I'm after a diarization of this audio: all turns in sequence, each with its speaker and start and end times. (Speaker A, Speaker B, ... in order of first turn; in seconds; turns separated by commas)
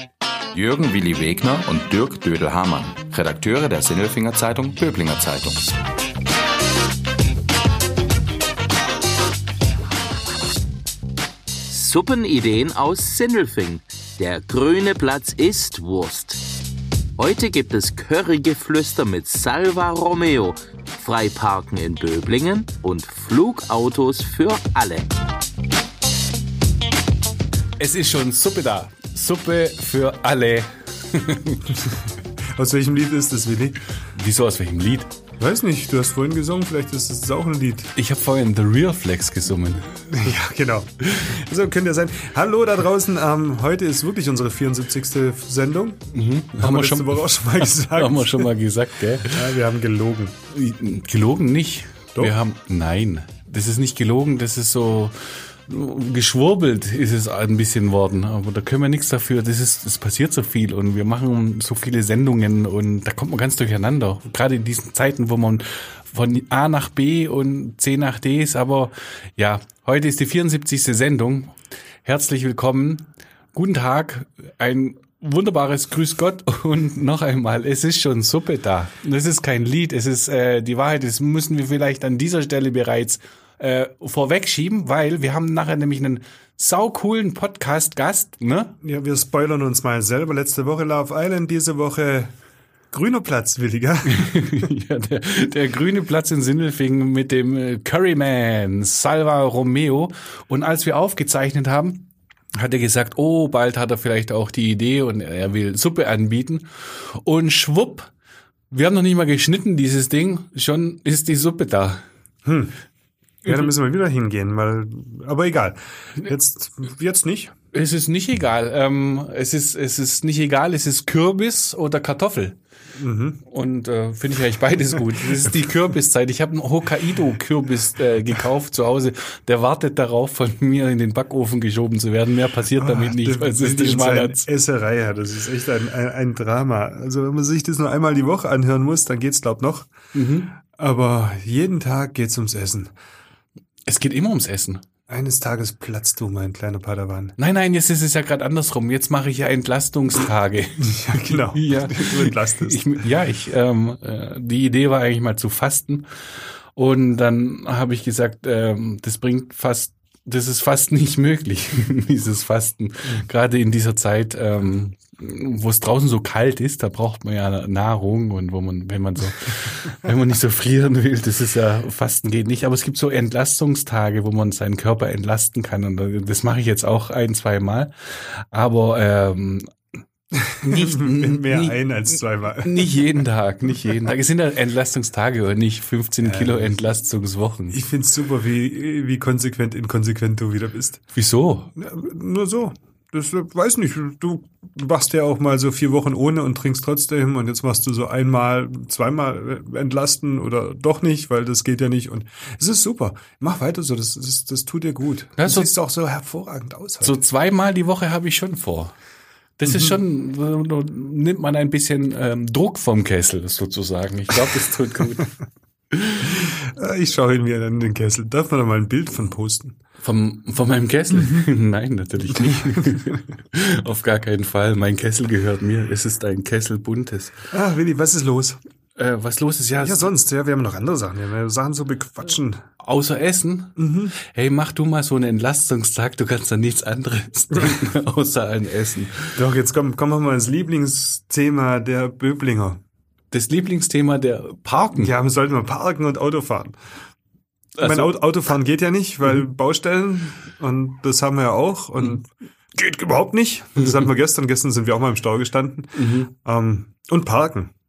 Speaker A: 0.5-5.7, Speaker B: 11.7-16.4, Speaker A: 15.6-16.2, Speaker B: 17.2-20.5, Speaker A: 18.4-18.7, Speaker B: 21.0-25.0, Speaker A: 22.7-23.1, Speaker C: 27.8-31.7, Speaker D: 31.7-33.8, Speaker C: 34.1-35.1, Speaker D: 35.4-37.9, Speaker C: 38.0-39.9, Speaker D: 40.1-46.0, Speaker C: 46.1-49.5, Speaker D: 46.5-48.5, Speaker D: 49.2-50.3, Speaker C: 50.5-88.8, Speaker D: 88.8-92.3, Speaker D: 92.9-94.6, Speaker C: 94.0-108.1, Speaker C: 108.7-112.0, Speaker D: 112.4-112.8, Speaker C: 113.4-113.7, Speaker D: 113.4-117.5, Speaker C: 117.7-122.6, Speaker D: 122.9-123.4, Speaker C: 123.5-134.5, Speaker D: 132.7-139.9, Speaker C: 140.1-140.5, Speaker D: 140.5-142.9, Speaker C: 143.9-144.8, Speaker D: 145.1-147.3, Speaker C: 147.4-156.1, Speaker D: 150.8-153.0, Speaker C: 156.7-179.7, Speaker D: 180.4-182.9, Speaker C: 180.6-187.8, Speaker D: 186.2-186.7, Speaker D: 187.7-191.0, Speaker C: 191.1-191.7, Speaker D: 191.8-207.2, Speaker C: 205.4-205.7, Speaker C: 207.0-208.9, Speaker C: 209.6-215.3, Speaker D: 209.7-210.0, Speaker C: 215.9-216.4, Speaker D: 216.2-219.8, Speaker C: 220.0-227.3, Speaker D: 221.1-221.4, Speaker D: 222.3-223.2, Speaker D: 227.5-228.6, Speaker C: 229.0-230.1, Speaker D: 229.8-232.6, Speaker C: 232.8-239.4, Speaker D: 233.8-234.2, Speaker D: 237.5-237.8, Speaker D: 239.3-242.8, Speaker C: 243.3-245.1, Speaker D: 244.9-246.8, Speaker C: 247.8-248.2, Speaker D: 247.8-257.7, Speaker C: 255.9-256.3